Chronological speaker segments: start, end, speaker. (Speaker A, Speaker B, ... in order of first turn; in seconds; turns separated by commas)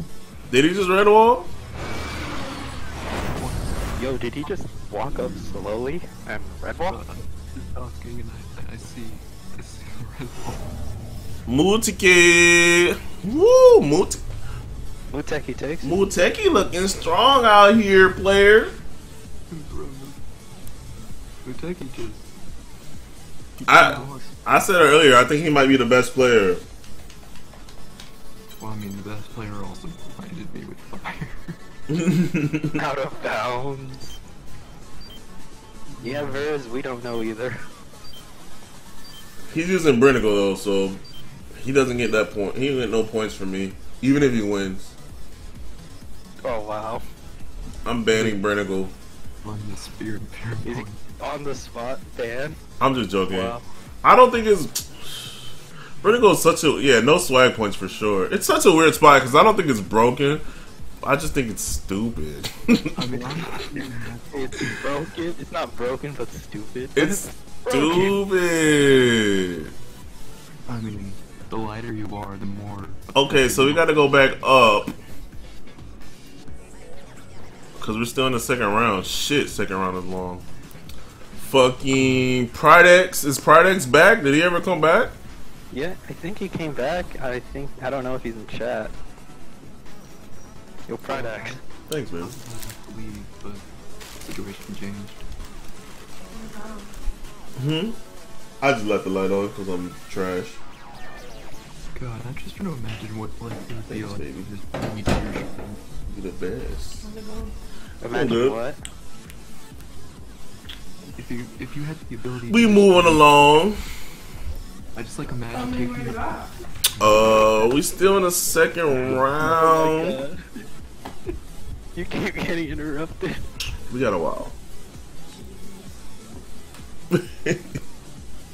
Speaker A: 0.5-1.5, Speaker B: 3.4-3.9, Speaker C: 3.9-7.0, Speaker B: 6.8-10.7, Speaker A: 11.5-14.2, Speaker C: 15.1-15.9, Speaker A: 15.8-18.7, Speaker B: 19.5-20.2, Speaker B: 21.4-22.3, Speaker B: 23.6-24.4, Speaker A: 23.7-26.6, Speaker B: 28.6-31.6, Speaker A: 31.9-32.8, Speaker C: 32.7-34.2, Speaker B: 35.9-36.5, Speaker C: 36.0-37.6, Speaker A: 39.5-41.0, Speaker A: 41.5-44.9, Speaker C: 46.4-47.0, Speaker A: 47.8-48.9, Speaker B: 48.1-48.4, Speaker B: 49.4-51.0, Speaker C: 50.6-52.6, Speaker A: 52.8-55.3, Speaker C: 53.3-53.7, Speaker A: 56.0-60.4, Speaker A: 61.0-63.5, Speaker B: 62.9-65.0, Speaker C: 64.3-68.2, Speaker A: 67.0-69.7, Speaker B: 70.7-73.9, Speaker A: 73.1-74.9, Speaker A: 77.8-80.4, Speaker A: 81.4-85.1, Speaker B: 81.9-82.3, Speaker C: 85.7-88.9, Speaker C: 90.9-91.6, Speaker B: 91.0-91.6, Speaker A: 91.9-92.3, Speaker B: 92.2-93.7, Speaker B: 94.2-95.2, Speaker A: 97.5-98.0, Speaker A: 98.6-100.6, Speaker B: 101.9-105.8, Speaker A: 103.9-104.4, Speaker A: 106.1-107.1, Speaker C: 108.0-108.8, Speaker A: 108.1-108.6, Speaker B: 111.1-113.3, Speaker A: 112.5-113.8, Speaker B: 114.9-116.5, Speaker A: 117.0-120.2, Speaker B: 117.0-117.5, Speaker B: 118.9-119.5, Speaker C: 119.4-120.4, Speaker C: 121.9-123.5, Speaker A: 123.9-124.5, Speaker A: 127.1-127.6